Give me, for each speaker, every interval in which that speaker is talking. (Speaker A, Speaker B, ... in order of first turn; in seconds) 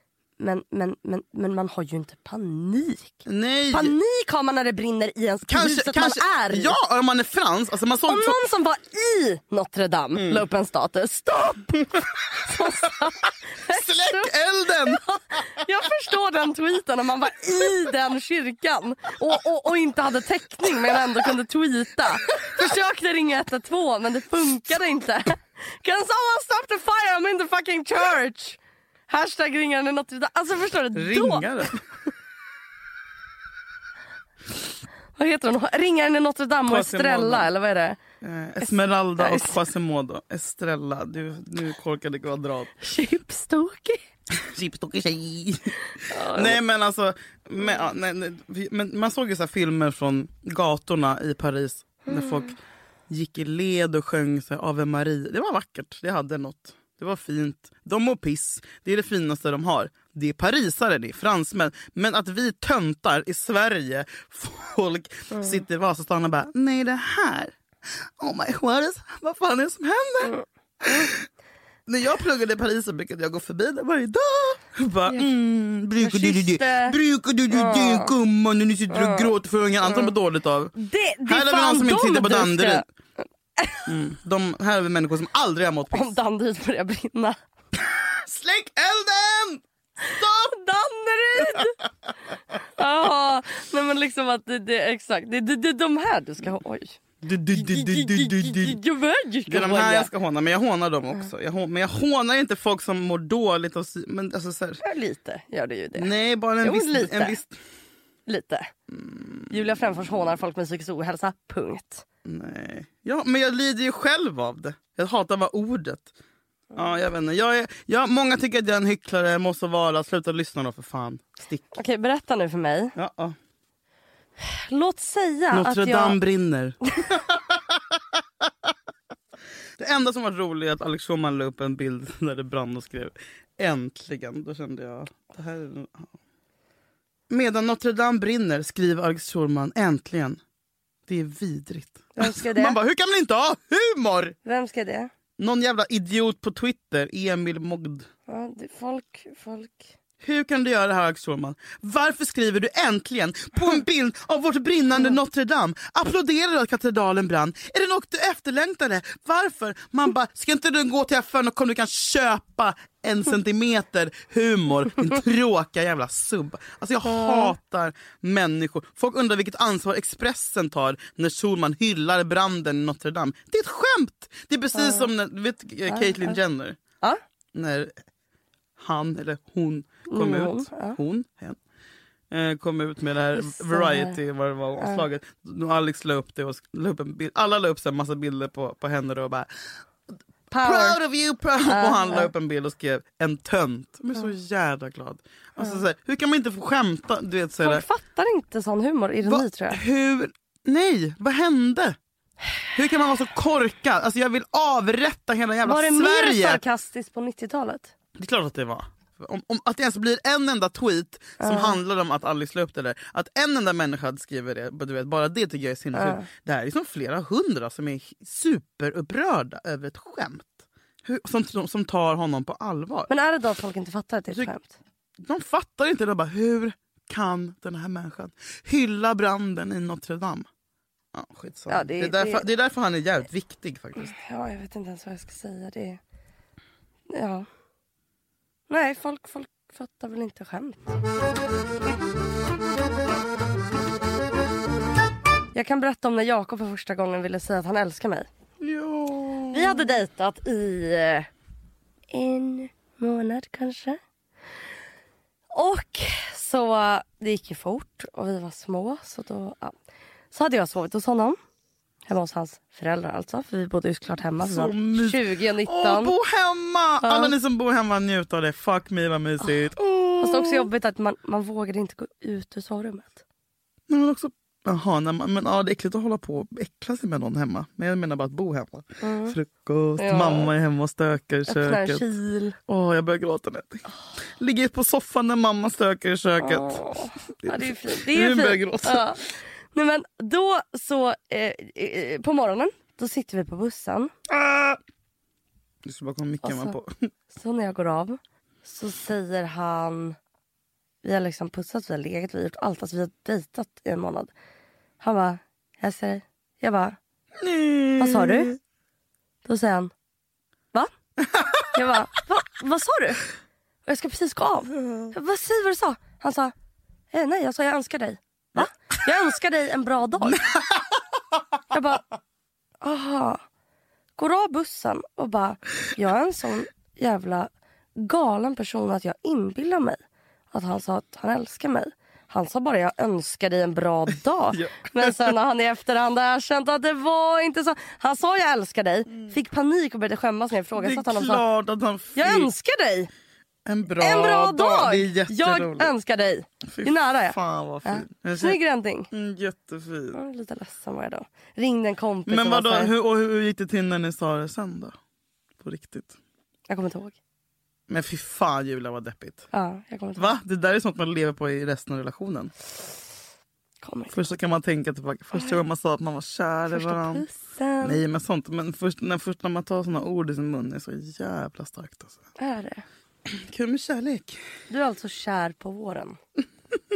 Speaker A: 0.4-6.8, 8.1-14.3, 14.9-28.6, 29.1-31.6, 35.1-38.0, 38.6-39.6, 42.8-44.0, 46.1-46.6, 52.1-52.5, 65.3-65.6, 70.2-71.1, 76.0-77.0, 77.5-78.1, 78.9-80.1, 80.8-82.8, 83.6-83.9, 85.9-87.4, 90.0-91.8, 92.8-97.0, 97.5-100.1, 104.8-106.1, 106.6-107.4, 108.3-108.7, 109.5-112.0, 121.7-122.9, 124.4-126.2, 142.2-142.8, 144.4-145.1, 148.3-149.9, 167.0-167.5, 174.7-175.1, 175.9-176.4, 180.1-181.0, 183.3-184.2, 190.5-191.0, 191.6-192.3, 197.6-199.8, 205.6-207.9, 211.4-211.8, 215.9-216.3, 223.1-224.8, 231.7-232.5, 234.0-236.0, 237.1-237.5, 238.7-241.0, 245.5-248.3, 249.5-251.3, 252.1-254.0, 255.5-259.8, 260.3-261.4, 262.1-266.1, 267.0-267.3, 270.2-273.2, 279.0-279.4, 280.0-280.5, 281.5-282.6, 286.4-289.2, 289.7-294.1, 296.4-296.8, 297.3-300.1, 301.0-304.3, 305.0-307.0, 308.0-308.5, 309.4-309.9, 311.7-313.2, 313.9-316.5, 317.1-320.4, 321.7-322.0, 322.8-323.4, 324.2-330.0, 330.5-341.4, 342.1-343.1, 344.0-349.1, 350.1-352.9, 356.7-357.1, 359.5-360.3, 363.8-364.2, 365.3-365.6, 366.7-368.0, 372.4-372.8, 374.7-376.2
Speaker B: 3.2-3.9, 5.5-8.4, 10.1-10.4, 13.7-15.0, 30.9-31.8, 36.6-37.5, 38.2-42.7, 44.3-52.5, 53.1-71.3, 71.9-80.7, 81.2-82.9, 83.9-86.1, 87.8-90.5, 91.4-91.7, 97.2-98.8, 99.5-104.8, 105.9-107.6, 108.9-109.5, 112.2-116.1, 116.7-121.8, 122.9-123.4, 125.5-128.5, 129.8-136.1, 137.3-140.4, 141.1-144.3, 145.4-148.1, 150.2-176.8, 177.5-178.0, 178.8-181.6, 182.3-189.5, 190.6-197.8, 199.2-202.0, 202.7-206.6, 208.2-223.1, 225.2-230.5, 231.1-234.1, 248.6-249.9, 264.4-270.7, 273.9-282.1, 282.6-283.9, 284.4-286.9, 287.4-289.2, 294.3-294.8, 295.9-297.0, 307.4-308.6, 311.2-311.7, 314.8-315.1, 320.2-321.0, 334.5-335.4, 340.8-342.5, 343.6-345.9, 346.7-348.6, 349.1-350.2, 352.2-355.0, 355.6-356.1, 357.9-359.5, 360.1-362.5, 364.1-367.2, 367.8-372.2, 373.2-374.4